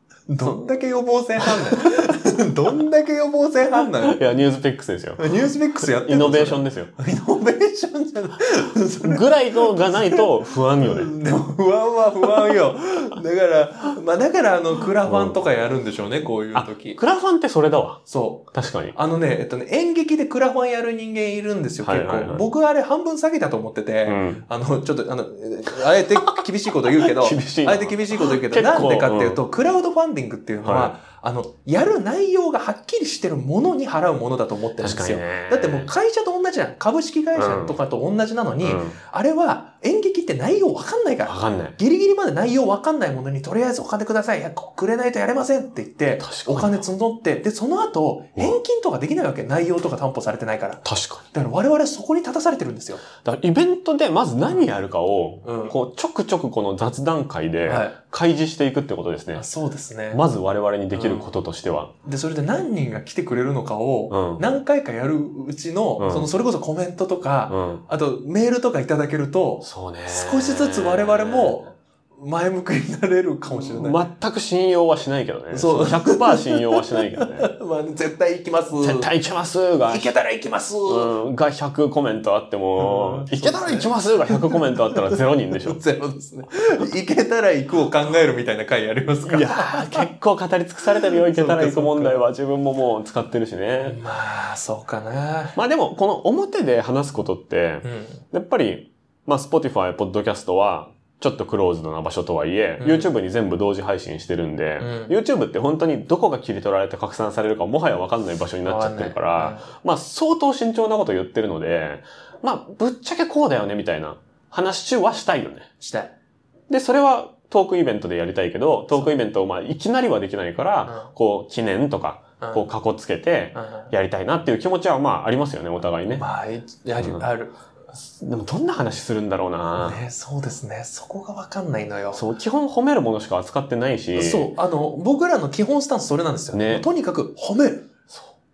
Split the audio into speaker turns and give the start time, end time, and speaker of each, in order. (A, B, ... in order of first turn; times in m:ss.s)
0:00.3-0:04.2 A
0:01.4-0:01.8 B
0:04.0-0:06.9 B
0:05.2-0:10.3 A
0:09.0-0:11.1 B
0:10.8-0:17.0 A
0:15.0-0:15.4 B
0:16.5-0:19.0 B
0:18.1-0:53.0 A
0:21.8-0:22.4 B
0:24.0-0:24.4 B
0:26.2-0:29.4 B
0:30.6-0:30.9 B
0:34.8-0:35.9 B
0:37.3-0:37.8 B
0:38.6-0:39.0 B
0:41.2-0:41.8 B
0:46.2-0:46.8 B
0:50.8-0:51.2 B
0:53.2-0:59.4 B
0:55.4-0:55.8 A
0:57.6-0:58.0 A
0:59.4-1:00.2 A
1:00.1-1:01.9 B
1:00.9-1:01.3 A
1:02.0-1:14.0 A
1:04.1-1:04.6 B
1:06.0-1:06.3 B
1:07.5-1:07.8 B
1:09.6-1:11.6 B
1:13.5-1:17.5 B
1:15.5-1:19.1 A
1:18.8-1:20.1 B
1:19.9-1:21.1 A
1:20.8-1:25.8 B
1:22.8-1:30.1 A
1:29.2-1:34.0 B
1:31.0-1:32.2 A
1:33.8-1:35.6 A
1:35.5-1:55.7 B
1:37.8-1:38.2 A
1:42.8-1:43.1 A
1:44.8-1:45.2 A
1:48.6-1:49.7 A
1:55.8-1:56.1 A
1:56.7-2:06.2 B
2:00.8-2:01.1 A
2:02.4-2:02.7 A
2:03.5-2:03.9 A
2:06.1-2:07.6 A
2:07.0-2:07.2 B
2:08.1-2:10.0 B
2:09.8-2:12.2 A
2:12.1-2:14.5 B
2:14.1-2:17.9 A
2:16.5-2:16.9 B